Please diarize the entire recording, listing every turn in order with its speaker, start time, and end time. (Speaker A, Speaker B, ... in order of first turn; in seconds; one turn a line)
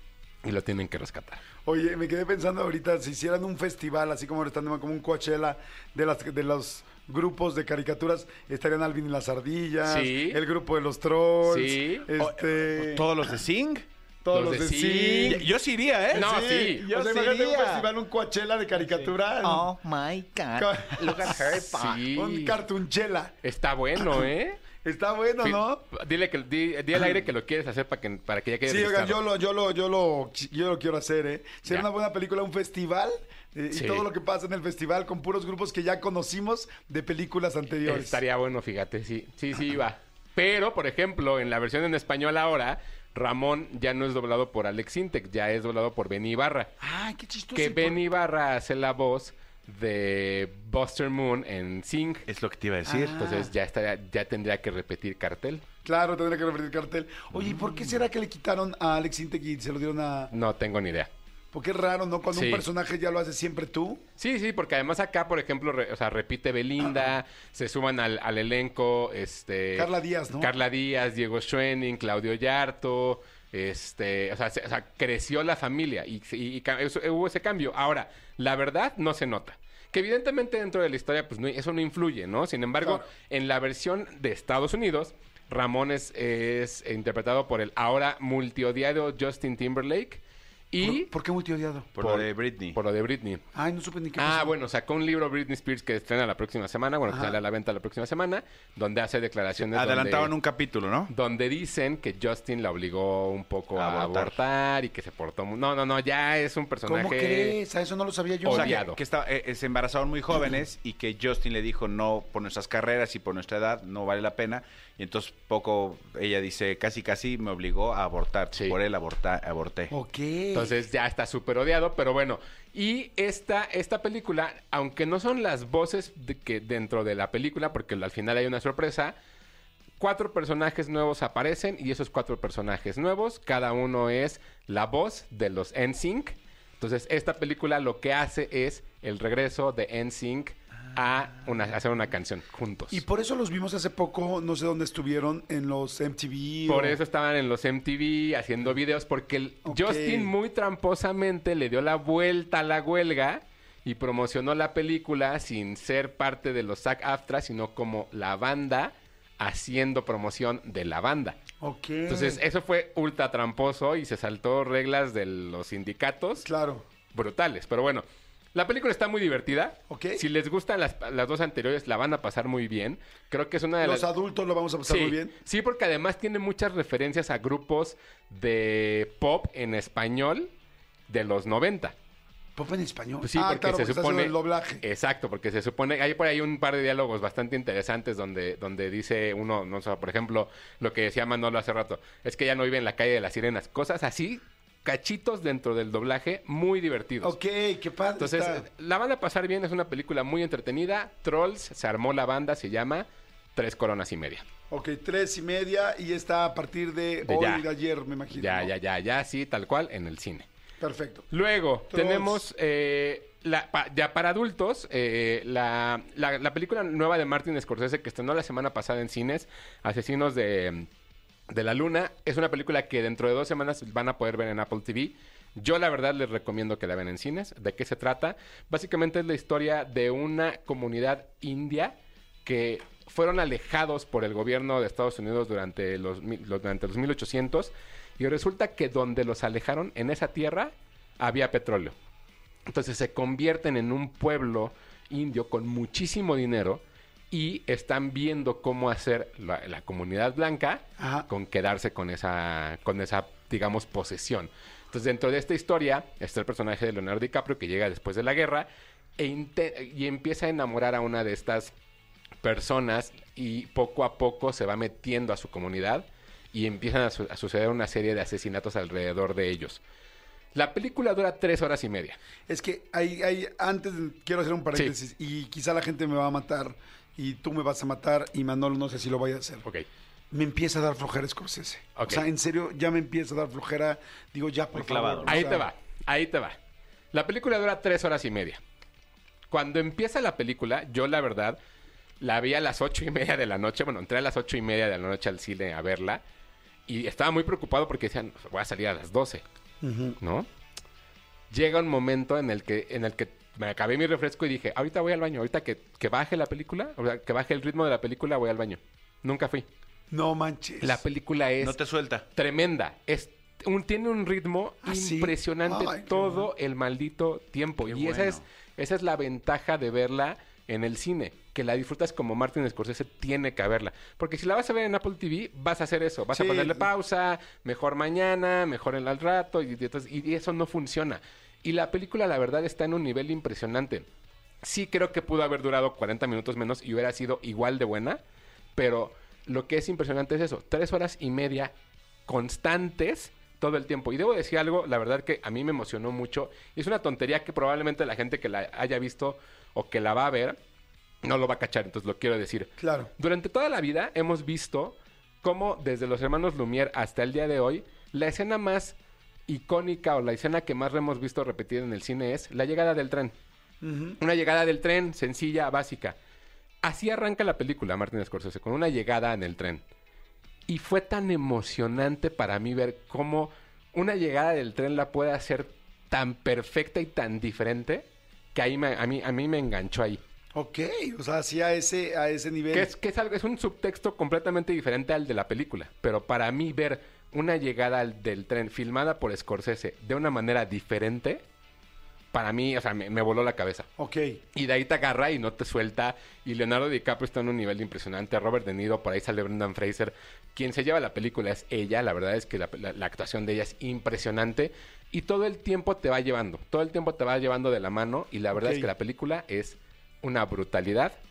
Speaker A: 0.4-1.4
Speaker B: 1.6-13.3
Speaker A: 9.9-10.4
Speaker A: 11.4-12.1
Speaker C: 12.2-13.8
Speaker B: 14.2-15.5
Speaker A: 14.3-15.4
Speaker C: 15.1-17.9
Speaker B: 16.1-19.7
Speaker A: 16.1-16.9
Speaker C: 18.8-22.1
Speaker B: 20.6-23.3
Speaker A: 21.7-22.6
Speaker A: 23.4-24.7
Speaker B: 24.0-24.2
Speaker B: 24.8-25.8
Speaker A: 25.4-29.2
Speaker B: 28.6-38.2
Speaker A: 33.7-34.0
Speaker A: 37.8-46.7
Speaker B: 46.8-48.0
Speaker A: 47.5-52.2
Speaker C: 52.3-53.2
Speaker B: 52.9-53.5
Speaker A: 53.1-55.6
Speaker B: 55.8-60.3
Speaker C: 57.3-57.9
Speaker A: 60.3-61.1
Speaker B: 61.5-64.0
Speaker A: 62.3-62.6
Speaker A: 64.2-91.1
Speaker B: 69.7-70.5
Speaker B: 90.8-91.9
Speaker C: 92.0-92.8
Speaker A: 92.0-93.4
Speaker B: 93.5-94.5
Speaker A: 94.2-100.3
Speaker B: 97.1-97.3
Speaker C: 99.5-101.1
Speaker A: 101.1-107.6
Speaker C: 103.8-104.4
Speaker B: 106.9-108.8
Speaker A: 108.5-109.0
Speaker C: 108.5-119.9
Speaker B: 119.9-120.7
Speaker A: 120.5-129.2
Speaker A: 130.0-143.0
Speaker B: 142.9-147.0
Speaker A: 146.7-161.4
Speaker B: 149.6-150.3
Speaker B: 161.6-162.4
Speaker A: 162.1-166.4
Speaker B: 166.4-166.8
Speaker A: 167.1-174.1
Speaker B: 169.9-170.2
Speaker B: 173.8-175.3
Speaker A: 174.9-180.5
Speaker A: 181.1-181.9
Speaker B: 182.6-184.8
Speaker A: 183.2-197.3
Speaker B: 197.2-198.6
Speaker A: 198.2-204.4
Speaker B: 204.7-208.7
Speaker A: 207.3-207.7
Speaker A: 208.3-210.4
Speaker B: 210.8-211.3
Speaker A: 211.3-220.9
Speaker B: 211.9-212.4
Speaker A: 221.5-241.9
Speaker A: 242.7-261.7
Speaker B: 251.0-251.3
Speaker A: 262.4-269.8
Speaker A: 270.6-272.1
Speaker B: 272.5-279.6
Speaker B: 280.3-285.7
Speaker A: 282.0-282.3
Speaker C: 284.7-285.6
Speaker A: 285.2-286.6
Speaker A: 287.1-288.6
Speaker A: 289.5-291.6
Speaker A: 292.2-296.2
Speaker A: 296.9-299.4
Speaker B: 299.8-300.2
Speaker A: 300.2-300.5
Speaker A: 301.5-309.6
Speaker B: 310.1-311.0
Speaker A: 310.8-311.8
Speaker C: 311.6-312.3
Speaker A: 312.4-334.1
Speaker B: 314.8-316.5
Speaker C: 317.9-318.4
Speaker B: 326.3-326.9
Speaker A: 334.6-338.2
Speaker A: 338.8-341.7
Speaker A: 342.3-350.6
Speaker A: 351.2-358.9
Speaker B: 352.8-353.1
Speaker A: 359.5-363.3
Speaker B: 363.8-364.2
Speaker A: 364.2-366.1
Speaker A: 366.8-369.8
Speaker A: 370.7-380.2
Speaker B: 380.6-382.9
Speaker A: 382.7-391.4
Speaker A: 392.3-393.9
Speaker B: 394.0-394.4
Speaker A: 394.6-411.1
Speaker B: 408.5-408.9